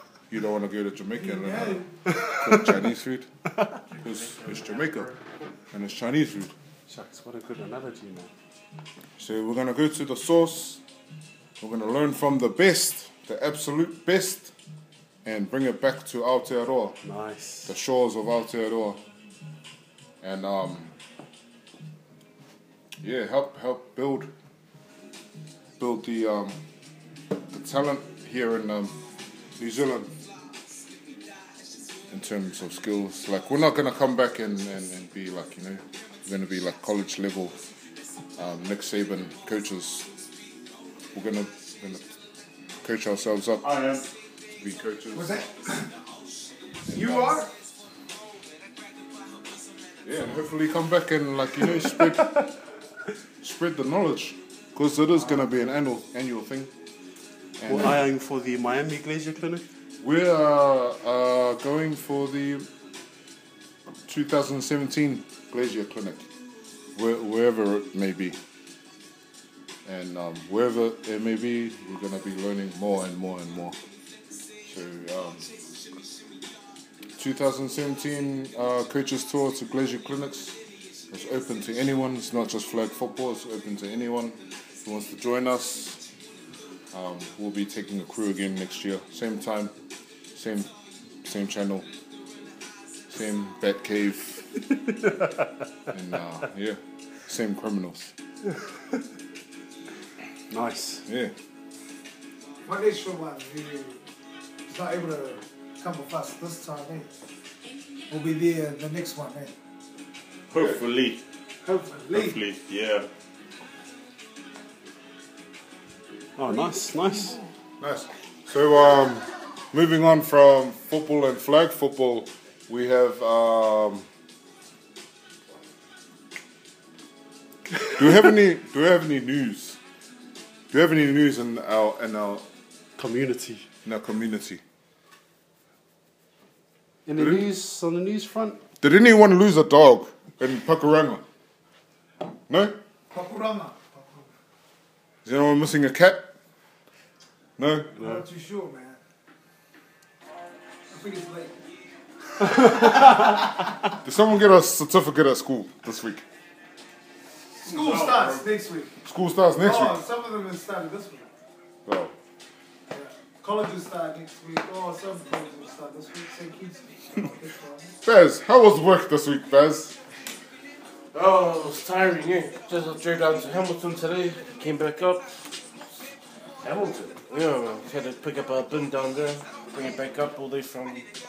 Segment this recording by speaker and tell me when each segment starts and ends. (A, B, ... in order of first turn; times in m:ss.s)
0:00.3-0:03.3 A
0:01.2-0:01.9 B
0:02.1-0:02.7 C
0:04.0-0:05.1 A
0:05.7-0:06.5 A
0:06.9-0:08.3 C
0:09.2-0:10.8 A
0:11.6-0:14.5 A
0:15.2-0:17.0 A
0:17.0-0:17.7 C
0:17.7-0:19.0 A
0:20.2-0:20.9 A
0:23.0-0:24.3 A
0:25.8-0:26.6 A
0:27.5-0:29.0 A
0:29.6-0:30.2 A
0:32.1-0:37.6 A
0:38.4-0:40.1 A
0:41.1-0:42.1 A
0:42.8-0:43.7 A
0:43.6-0:44.1 D
0:44.6-0:45.5 A
0:45.2-0:45.9 B
0:46.9-0:47.5 B
0:46.9-0:47.4 A
0:50.0-0:52.5 A
0:53.4-0:56.7 A
0:57.6-0:58.0 A
0:57.7-0:59.6 C
1:00.0-1:02.7 A
1:04.1-1:06.3 A
1:07.0-1:08.4 A
1:09.8-1:13.8 A
1:14.7-1:15.5 A
1:17.2-1:20.6 A
1:21.1-1:26.0 A
1:26.9-1:29.7 A
1:30.3-1:30.7 A
1:31.2-1:31.9 A
1:33.1-1:34.5 A
1:35.9-1:38.1 A
1:40.5-1:41.0 C
1:41.1-1:41.3 A
1:42.7-1:44.0 B
1:44.7-1:47.1 B
1:48.1-1:49.5 B
1:50.5-1:51.2 D
1:51.6-1:52.4 B
1:52.1-1:53.1 D
1:56.4-1:57.4 C
1:57.8-2:04.1 A
2:07.9-2:09.8 A
2:10.7-2:12.4 A
2:13.0-2:13.7 C
2:13.8-2:14.6 A
2:17.1-2:18.6 C
2:17.2-2:17.5 A
2:18.8-2:21.2 A
2:22.5-2:22.8 A
2:23.1-2:24.3 B
2:25.2-2:26.3 A
2:27.6-2:28.0 A
2:28.0-2:29.0 B
2:30.9-2:31.6 B
2:32.4-2:33.7 B
2:34.0-2:36.2 A
2:37.6-2:38.9 B
2:37.7-2:38.5 D
2:39.0-2:40.0 A
2:39.6-2:41.3 B
2:41.9-2:42.1 A
2:42.9-2:48.0 B
2:48.0-2:50.0 A
2:51.1-2:55.3 E
2:56.6-3:01.1 E